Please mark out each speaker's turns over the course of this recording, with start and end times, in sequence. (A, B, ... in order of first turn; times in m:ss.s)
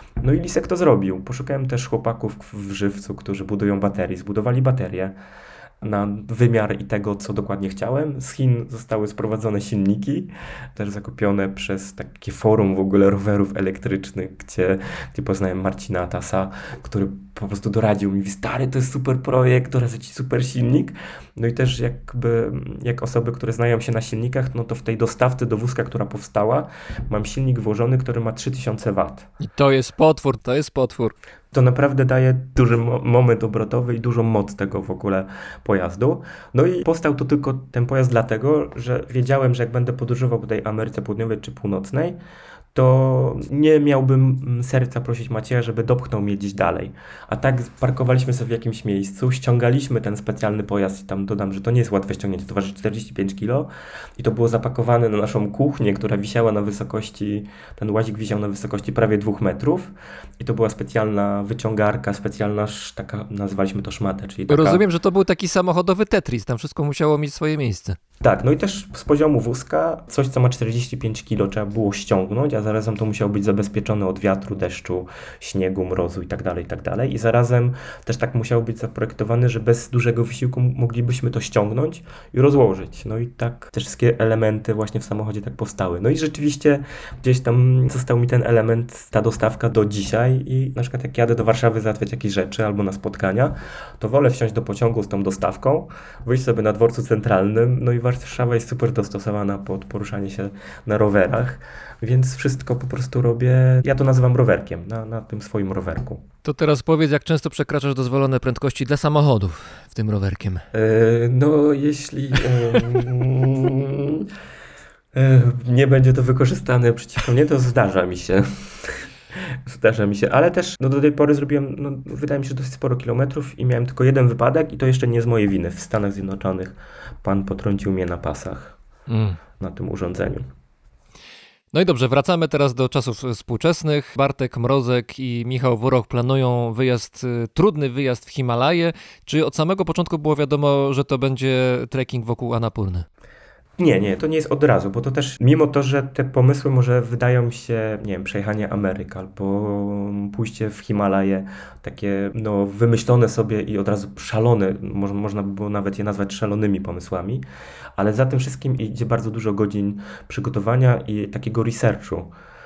0:00.2-0:05.2 A
0:05.8-0:29.3 A
0:29.4-0:31.1 B
0:31.5-0:42.2 A
0:42.7-1:04.8 A
1:04.5-1:08.0 B
1:08.2-1:46.2 A
1:46.4-1:50.6 B
1:50.7-1:54.3 A
1:55.1-1:59.0 A
1:59.7-2:08.8 A
2:09.1-2:09.4 B
2:09.6-2:10.5 A
2:11.7-2:23.1 B
2:23.8-2:37.4 A
2:38.0-2:42.3 A